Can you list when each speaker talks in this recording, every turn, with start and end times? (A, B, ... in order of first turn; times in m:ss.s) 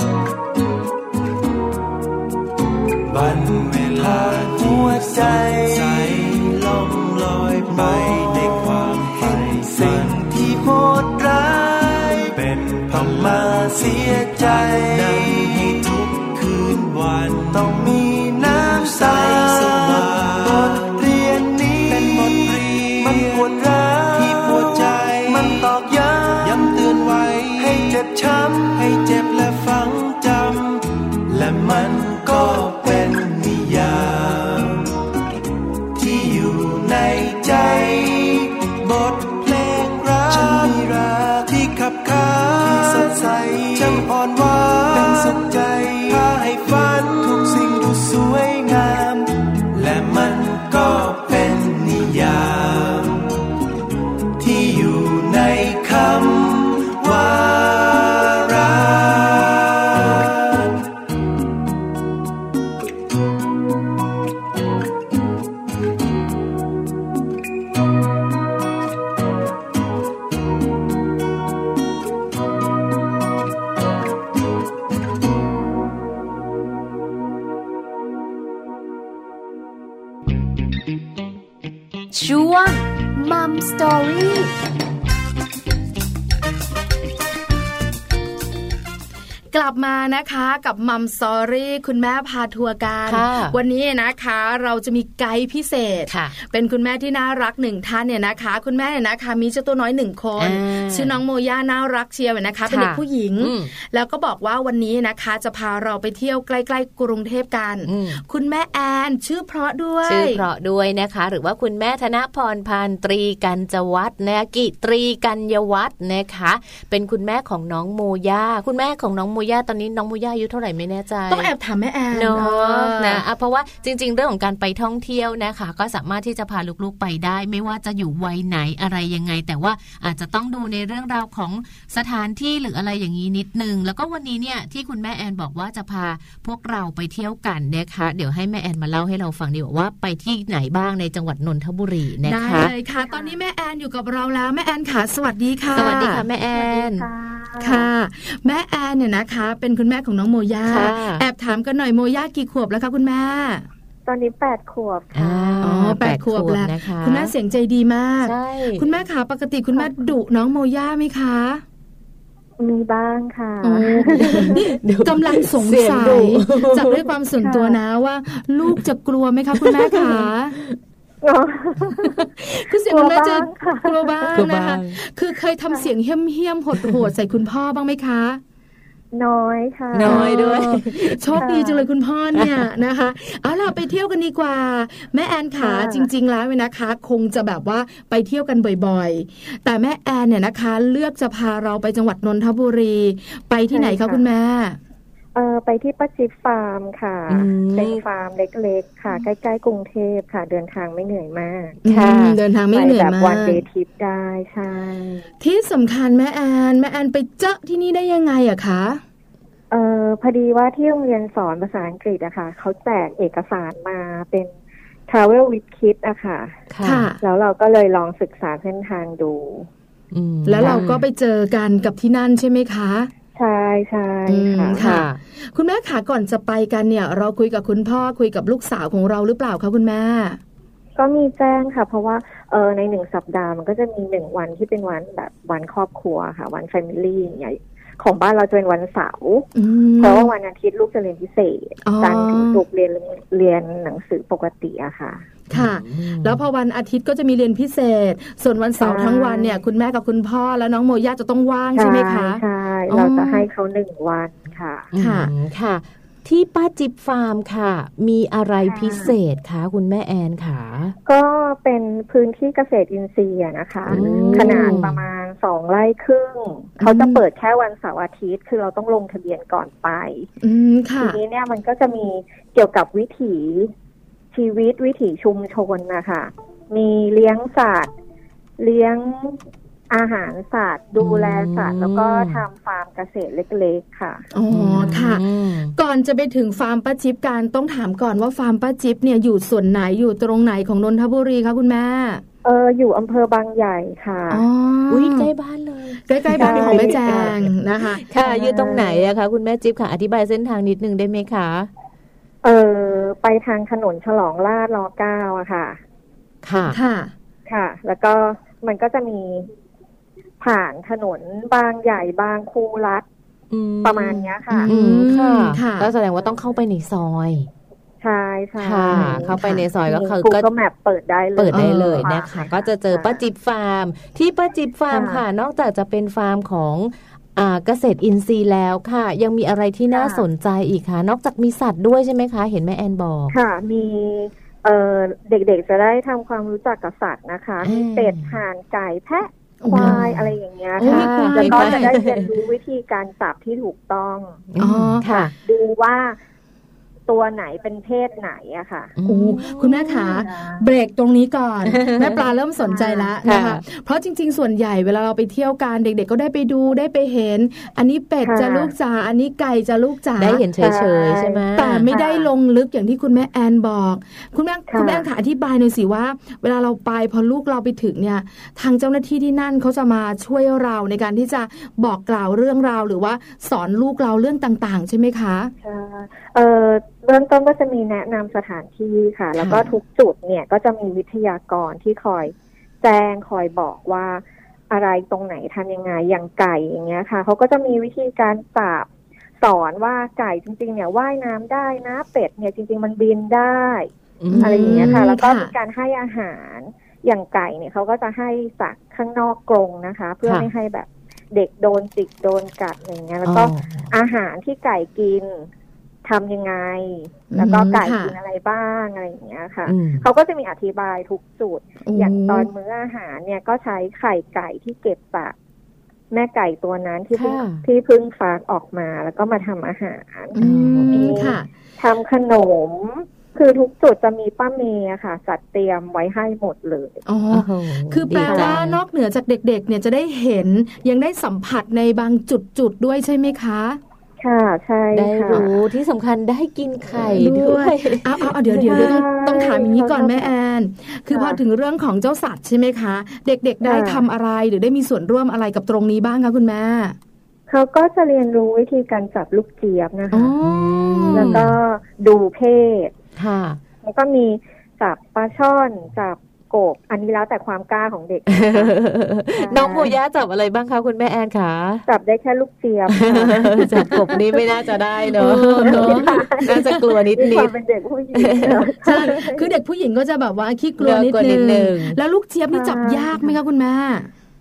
0:03.1-0:34.8 A
0:35.9-0:53.2 A
0:54.4-1:00.3 A
1:22.1-1:24.5 B
1:29.5-1:50.4 C
1:33.0-1:33.6 D
1:36.1-1:36.3 D
1:40.4-1:41.2 D
1:42.6-1:43.7 D
1:47.8-1:48.2 D
1:50.0-2:01.5 D
2:01.3-2:03.2 C
2:02.1-2:22.7 D
2:22.2-2:26.2 C
2:23.0-2:23.4 E
2:25.7-2:27.0 D
2:25.8-2:27.9 E
2:27.6-2:33.6 C
2:30.6-2:31.2 D
2:34.0-2:35.7 E
2:35.1-2:37.3 D
2:35.6-2:41.6 C
2:38.2-2:38.8 D
2:39.8-2:40.1 E
2:42.6-2:44.7 E
2:43.6-2:50.6 C
2:44.2-2:47.0 D
2:47.4-2:47.8 E
2:49.6-2:50.3 D
2:51.2-2:52.3 E
2:52.1-2:58.4 C
2:52.8-2:54.4 E
2:54.3-2:55.0 D
2:59.1-3:00.4 E
2:59.9-3:01.4 D
3:00.0-3:14.8 C
3:01.3-3:01.9 E
3:02.3-3:02.6 D
3:05.6-3:06.1 E
3:13.7-3:14.2 E
3:15.3-3:21.8 E
3:17.3-3:18.0 D
3:21.8-3:23.6 C
3:21.9-3:22.4 D
3:22.7-3:25.2 E
3:25.4-3:29.0 C
3:29.7-3:34.5 E
3:35.1-3:36.6 E
3:36.7-3:37.1 D
3:36.8-3:37.2 C
3:37.2-3:39.7 E
3:40.1-3:41.0 D
3:40.4-3:43.1 C
3:43.3-3:45.0 E
3:44.3-3:50.4 C
3:44.8-3:45.2 D
3:51.0-3:59.5 E
3:59.5-4:00.3 C
4:00.0-4:05.3 E
4:01.8-4:02.6 C
4:05.5-4:13.5 C
4:05.5-4:06.4 D
4:08.8-4:09.5 E
4:11.7-4:14.9 E
4:14.9-4:20.9 D
4:14.9-4:15.3 C
4:18.6-4:19.1 E
4:21.0-4:30.3 E
4:23.9-4:25.0 D
4:23.9-4:24.8 C
4:26.8-4:27.2 C
4:30.4-4:31.2 C
4:31.0-4:33.7 E
4:34.3-4:37.9 E
4:38.6-4:44.3 E
4:41.0-4:42.4 D
4:44.3-4:52.2 C
4:44.5-4:45.7 D
4:52.4-4:54.4 E
4:54.3-4:55.3 C
4:54.9-4:57.5 D
4:56.1-4:58.0 C
4:56.3-4:57.4 E
4:58.0-5:01.7 D
4:58.2-4:59.1 E
5:02.4-5:05.8 E
5:06.4-5:06.8 D
5:06.7-5:07.1 C
5:07.5-5:09.5 E
5:10.4-5:13.0 E
5:13.5-5:17.5 D
5:13.8-5:14.7 E
5:14.6-5:15.9 C
5:18.0-5:23.2 E
5:18.6-5:20.5 D
5:18.9-5:19.6 C
5:21.4-5:33.3 D
5:21.5-5:22.1 C
5:24.9-5:25.2 E
5:29.9-5:30.2 E
5:33.3-5:44.4 E
5:37.6-5:38.3 D
5:39.6-5:40.0 C
5:39.7-5:42.3 D
5:40.8-5:41.9 C
5:44.5-5:45.3 D
5:44.6-5:45.3 C
5:45.4-5:46.2 E
5:47.1-5:48.9 E
5:49.0-5:50.2 D
5:49.0-6:00.4 C
5:50.1-5:50.6 E
5:51.6-5:52.2 D
5:52.6-5:53.1 E
5:53.2-5:53.6 D
5:58.2-5:58.7 E
6:00.2-6:01.9 D
6:00.6-6:02.3 E
6:01.5-6:15.5 C
6:04.7-6:05.0 E
6:15.6-6:28.9 E
6:19.4-6:19.8 C
6:29.4-6:45.5 E
6:34.2-6:35.0 D
6:34.3-6:35.5 C
6:43.2-6:43.9 D
6:46.0-6:55.3 E
6:47.3-6:48.2 C
6:49.7-6:50.1 D
6:51.8-6:52.5 C
6:56.1-7:00.4 E
6:57.1-6:57.6 D
7:00.3-7:01.5 C
7:00.4-7:01.3 D
7:00.9-7:07.0 E
7:07.0-7:13.8 C
7:07.3-7:08.8 D
7:08.2-7:08.6 E
7:14.2-7:15.5 E
7:14.9-7:19.0 D
7:17.0-7:27.0 C
7:18.6-7:20.3 E
7:21.1-7:21.4 E
7:23.6-7:24.0 E
7:27.5-7:30.3 E
7:30.1-7:31.5 C
7:30.4-7:31.5 D
7:31.1-7:32.9 E
7:33.2-7:33.6 D
7:33.8-7:38.7 E
7:38.3-7:41.8 D
7:39.3-7:39.9 E
7:41.9-7:44.2 E
7:42.9-7:47.5 D
7:43.4-7:44.0 C
7:45.1-7:46.8 C
7:45.6-7:49.5 E
7:48.1-7:48.6 D
7:48.8-7:54.1 C
7:50.8-7:52.0 D
7:52.5-7:53.3 E